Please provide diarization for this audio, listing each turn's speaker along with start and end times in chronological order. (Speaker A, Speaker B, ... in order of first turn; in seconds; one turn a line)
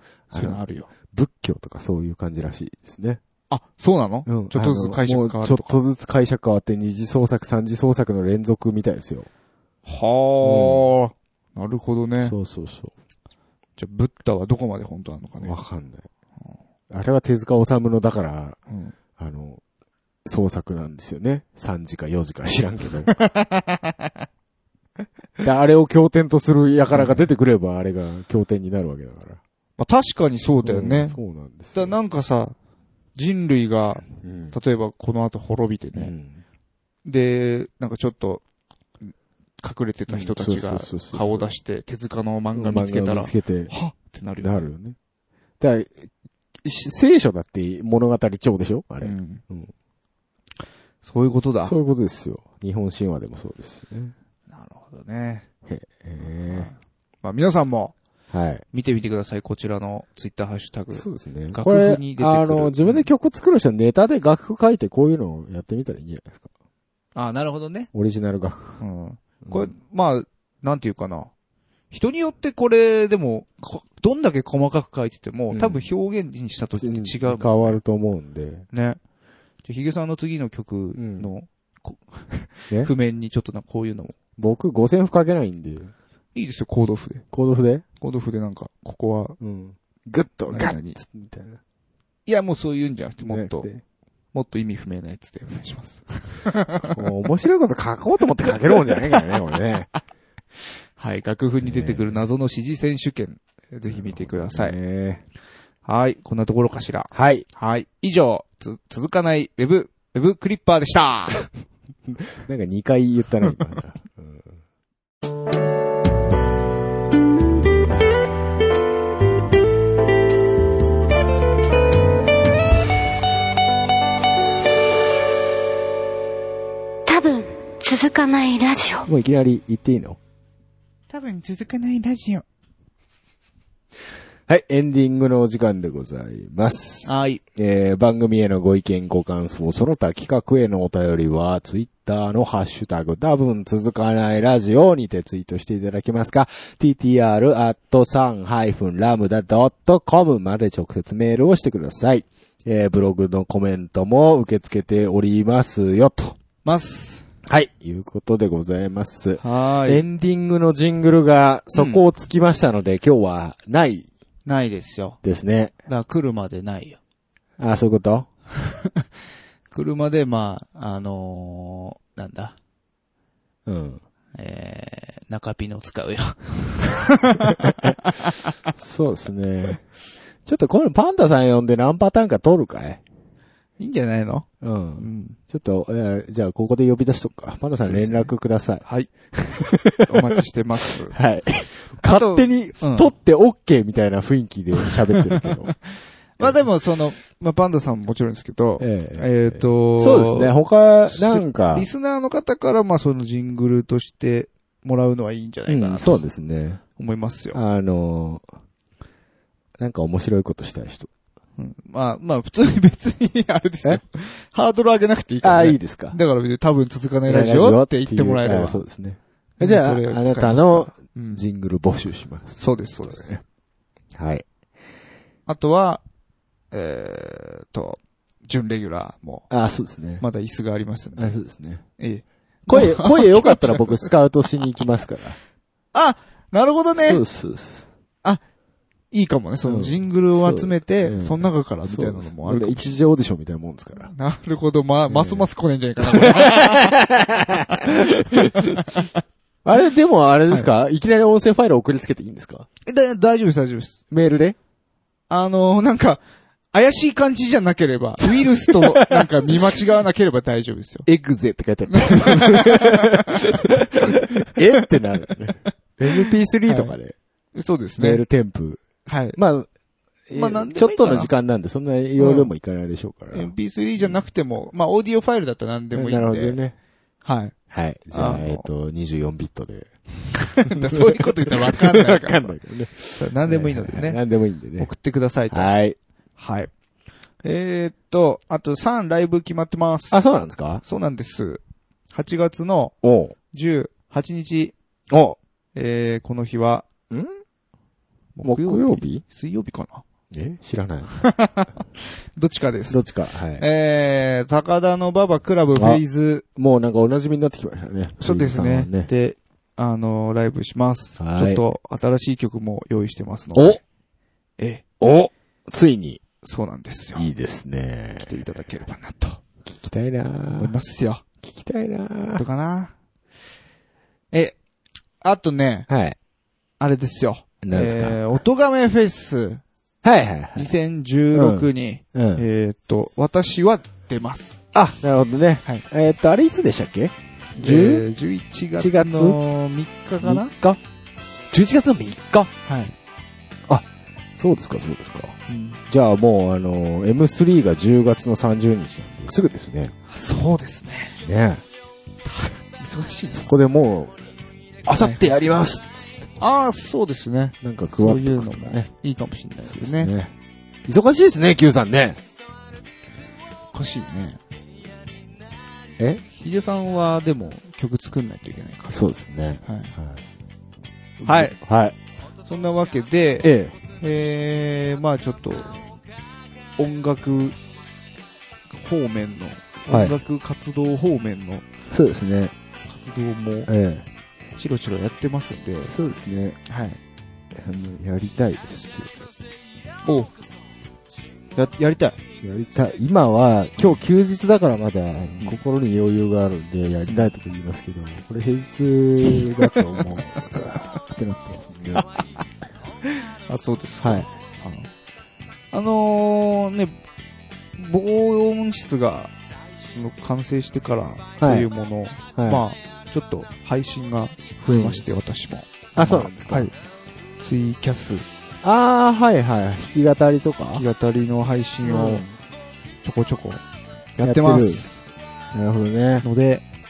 Speaker A: 0.3-3.2
Speaker B: 0.3-0.9
Speaker B: 3.5-5.8
Speaker A: 4.3-9.3
Speaker B: 9.9-12.3
Speaker A: 10.4-10.9
Speaker A: 12.2-12.9
Speaker B: 13.8-15.6
Speaker A: 15.4-16.1
Speaker A: 16.9-18.6
Speaker A: 19.2-19.6
Speaker A: 20.2-23.1
Speaker B: 23.2-23.9
Speaker A: 25.4-29.4
Speaker B: 26.9-27.3
Speaker B: 29.8-31.2
Speaker A: 30.6-32.0
Speaker B: 31.7-32.5
Speaker B: 33.2-36.1
Speaker A: 34.1-34.6
Speaker A: 35.9-36.4
Speaker B: 37.0-38.4
Speaker B: 39.0-44.6
Speaker A: 40.1-41.5
Speaker A: 42.5-43.7
Speaker A: 44.4-45.0
Speaker A: 45.6-46.1
Speaker A: 46.6-49.7
Speaker B: 49.0-49.4
Speaker B: 51.0-51.8
Speaker A: 51.6-54.1
Speaker B: 54.5-55.5
Speaker A: 55.7-56.7
Speaker B: 56.2-57.9
Speaker A: 58.3-58.6
Speaker B: 58.7-63.1
Speaker A: 60.9-66.5
Speaker B: 67.2-67.9
Speaker A: 67.9-68.8
Speaker B: 68.8-71.3
Speaker A: 69.4-69.7
Speaker B: 71.9-77.8
Speaker A: 75.5-75.9
Speaker A: 76.8-78.7
Speaker B: 78.7-79.0
Speaker B: 79.6-84.2
Speaker A: 81.0-81.3
Speaker A: 84.4-85.9
Speaker B: 86.3-87.2
Speaker A: 87.3-87.8
Speaker B: 88.0-89.4
Speaker A: 89.4-91.6
Speaker B: 90.5-91.0
Speaker B: 92.3-93.7
Speaker A: 93.2-93.8
Speaker B: 94.3-97.0
Speaker A: 96.9-99.9
Speaker B: 101.0-104.8
Speaker A: 101.6-102.2
Speaker A: 103.9-105.2
Speaker B: 105.8-111.5
Speaker A: 107.1-107.5
Speaker A: 112.1-114.6
Speaker C: 127.1-129.1
Speaker A: 129.1-130.2
Speaker B: 131.1-132.4
Speaker A: 134.5-156.4
Speaker B: 137.1-137.4
Speaker B: 156.6-157.3
Speaker A: 157.4-164.1
Speaker B: 159.4-160.1
Speaker B: 161.8-162.0
Speaker B: 164.5-165.2
Speaker A: 165.2-165.7
Speaker B: 165.9-167.0
Speaker A: 167.6-168.3
Speaker B: 169.7-172.6
Speaker A: 173.7-174.0
Speaker B: 174.4-178.5
Speaker A: 178.8-179.8
Speaker A: 180.4-183.0
Speaker B: 183.8-184.5
Speaker A: 184.6-190.1
Speaker B: 185.0-185.4
Speaker B: 187.8-188.3
Speaker B: 188.8-189.1
Speaker B: 190.0-191.2
Speaker A: 191.1-195.8
Speaker B: 192.0-193.1
Speaker B: 196.4-200.5
Speaker A: 198.8-201.9
Speaker B: 201.1-206.3
Speaker A: 205.7-206.8
Speaker B: 207.0-207.6
Speaker A: 207.5-208.5
Speaker A: 209.8-211.1
Speaker B: 211.6-218.8
Speaker A: 215.4-216.2
Speaker A: 217.3-223.4
Speaker B: 219.6-221.4
Speaker B: 222.6-223.3
Speaker A: 224.2-224.5
Speaker B: 225.5-226.0
Speaker B: 226.7-229.5
Speaker A: 229.5-230.2
Speaker B: 230.2-231.4
Speaker A: 231.2-231.8
Speaker B: 232.0-234.1
Speaker A: 232.7-235.4
Speaker B: 235.9-237.2
Speaker A: 237.0-237.9
Speaker B: 239.1-242.9
Speaker A: 239.6-244.1
Speaker B: 244.1-246.9
Speaker A: 245.1-245.5
Speaker A: 246.0-249.0
Speaker B: 247.7-249.1
Speaker A: 249.7-252.7
Speaker B: 252.8-254.0
Speaker A: 254.1-254.6
Speaker B: 255.3-264.9
Speaker A: 258.3-259.8
Speaker A: 261.6-267.2
Speaker B: 266.7-266.9
Speaker B: 267.6-268.2
Speaker A: 268.0-268.8
Speaker B: 269.1-269.4
Speaker A: 269.3-269.7
Speaker A: 270.3-274.2
Speaker B: 270.3-271.3
Speaker B: 272.2-272.5
Speaker B: 273.3-276.6
Speaker A: 275.9-276.8
Speaker B: 277.2-277.6
Speaker A: 277.7-279.9
Speaker B: 278.1-278.7
Speaker B: 280.5-282.6
Speaker A: 280.6-284.9
Speaker B: 283.2-284.2
Speaker B: 284.8-285.7
Speaker A: 285.5-286.0
Speaker B: 286.4-286.7
Speaker B: 287.4-290.2
Speaker A: 290.1-290.8
Speaker B: 290.8-292.9
Speaker A: 293.0-293.4
Speaker B: 293.5-294.8
Speaker A: 295.1-295.4
Speaker B: 295.8-296.9
Speaker B: 298.4-300.0
Speaker A: 298.4-299.2
Speaker A: 300.3-301.1
Speaker B: 301.2-306.4
Speaker A: 302.9-303.6
Speaker A: 305.8-306.0
Speaker A: 306.6-309.1
Speaker B: 308.2-313.8
Speaker A: 311.2-311.6
Speaker A: 313.6-313.8
Speaker A: 315.0-316.2
Speaker B: 316.4-317.3
Speaker A: 317.1-318.3
Speaker B: 318.2-319.4
Speaker A: 319.6-320.8
Speaker B: 320.5-321.2
Speaker A: 321.4-322.4
Speaker B: 322.4-322.9
Speaker B: 324.3-324.6
Speaker B: 325.2-325.9
Speaker A: 325.9-326.2
Speaker B: 326.8-329.6
Speaker A: 327.6-328.2
Speaker A: 330.0-330.8
Speaker B: 330.6-334.6
Speaker A: 331.3-332.4
Speaker A: 334.7-338.1
Speaker B: 337.6-340.5
Speaker A: 338.8-339.4
Speaker A: 340.2-340.8
Speaker A: 341.5-342.5
Speaker B: 342.6-342.9
Speaker A: 343.7-349.9
Speaker B: 345.5-345.8
Speaker B: 350.1-351.2
Speaker A: 351.2-351.6
Speaker B: 352.3-353.5
Speaker A: 353.3-354.2
Speaker A: 354.9-356.0
Speaker B: 355.0-355.2
Speaker B: 356.4-360.1
Speaker A: 357.6-358.9
Speaker A: 359.7-360.3
Speaker A: 360.9-362.2
Speaker B: 363.7-364.4
Speaker A: 366.0-366.2
Speaker B: 366.4-369.1
Speaker A: 368.9-370.2
Speaker B: 369.6-369.9
Speaker A: 371.2-372.0
Speaker B: 371.2-371.6
Speaker B: 372.5-375.9
Speaker A: 373.4-373.8
Speaker B: 376.8-377.6
Speaker B: 378.7-381.7
Speaker A: 379.9-380.2
Speaker A: 381.9-382.5
Speaker B: 382.9-383.7
Speaker A: 383.7-384.1
Speaker B: 384.6-385.9
Speaker A: 385.9-386.6
Speaker B: 386.7-387.0
Speaker A: 387.5-389.3
Speaker B: 390.1-390.3
Speaker B: 391.6-392.2
Speaker A: 392.4-402.1
Speaker B: 397.1-397.3
Speaker B: 399.3-402.2
Speaker B: 403.5-404.9
Speaker A: 404.0-404.3
Speaker B: 405.7-406.9
Speaker B: 407.8-409.3
Speaker B: 409.9-416.7
Speaker A: 411.4-411.7
Speaker A: 412.4-412.6
Speaker A: 414.7-415.0
Speaker A: 415.9-416.7
Speaker B: 417.4-418.3
Speaker A: 418.6-420.8
Speaker B: 420.7-422.2
Speaker A: 421.8-422.4
Speaker B: 423.0-423.6
Speaker B: 424.2-425.0
Speaker A: 424.2-424.9
Speaker A: 425.5-426.3
Speaker B: 426.2-426.6